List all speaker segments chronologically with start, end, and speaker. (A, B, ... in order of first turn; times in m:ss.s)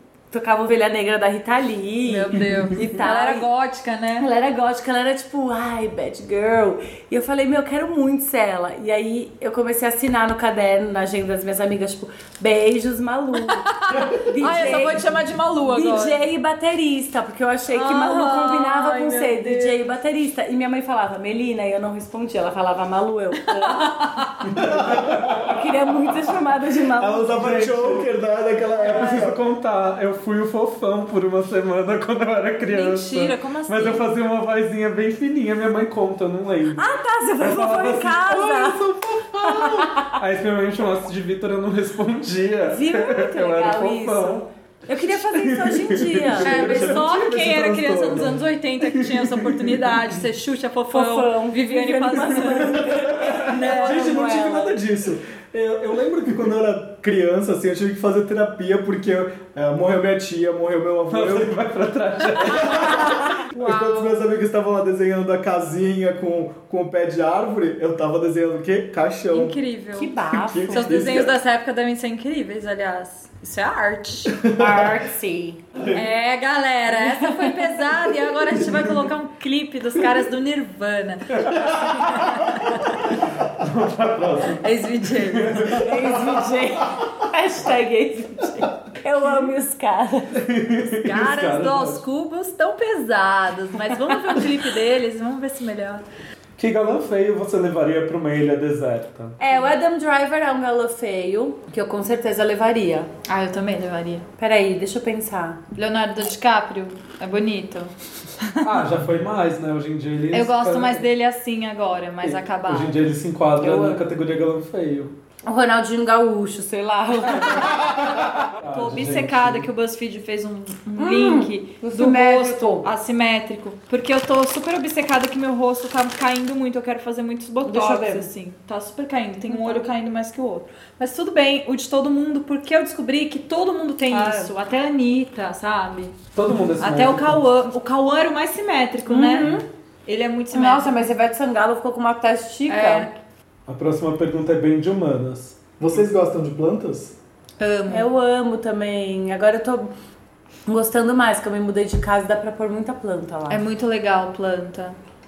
0:00.3-0:03.5 A
0:02.0-0:04.3 B
0:04.2-0:24.1 A
0:13.5-0:16.2 B
0:17.7-0:19.8 B
0:23.4-0:24.4 B
0:24.5-0:25.3 C
0:24.6-0:25.2 D
0:25.3-0:27.4 A
0:27.0-0:29.4 D
0:27.3-0:28.1 C
0:28.8-0:46.4 C
0:28.9-0:29.1 B
0:32.7-0:34.1 B
0:36.7-0:38.8 A
0:39.4-0:40.2 A
0:42.7-0:47.0 A
0:46.2-0:48.4 D
0:46.4-0:52.9 B
0:49.0-0:49.8 C
0:50.9-0:54.7 A
0:53.1-1:01.5 D
0:53.4-0:54.5 B
1:01.1-1:03.1 C
1:02.6-1:04.2 B
1:02.6-1:09.6 D
1:09.3-1:10.1 B
1:10.0-1:11.1 A
1:10.3-1:11.4 D
1:10.7-1:14.4 B
1:14.3-1:15.0 D
1:14.5-1:15.6 A
1:15.9-1:22.9 B
1:16.9-1:18.0 A
1:21.4-1:22.2 C
1:23.4-1:25.9 C
1:24.6-1:25.8 B
1:25.7-1:30.4 A
1:30.4-1:32.0 C
1:31.0-1:36.0 B
1:36.6-1:39.4 C
1:39.4-1:43.1 A
1:43.2-1:44.2 B
1:44.4-1:45.6 A
1:45.7-1:48.8 B
1:48.6-1:51.0 C
1:50.3-1:53.0 B
1:52.2-1:55.1 C
1:53.6-1:54.0 A
1:55.4-1:57.9 A
1:57.8-1:59.7 C
1:58.7-2:16.2 B
2:01.0-2:02.9 A
2:07.6-2:08.3 A
2:09.5-2:09.9 A
2:14.1-2:14.5 A
2:16.3-2:17.4 C
2:16.8-2:20.9 B
2:19.1-2:19.6 A
2:20.5-2:23.1 A
2:22.7-2:23.1 B
2:23.7-2:25.6 C
2:25.8-2:27.1 D
2:27.6-2:28.1 B
2:27.9-2:29.9 A
2:30.7-2:33.6 A
2:33.5-2:35.0 B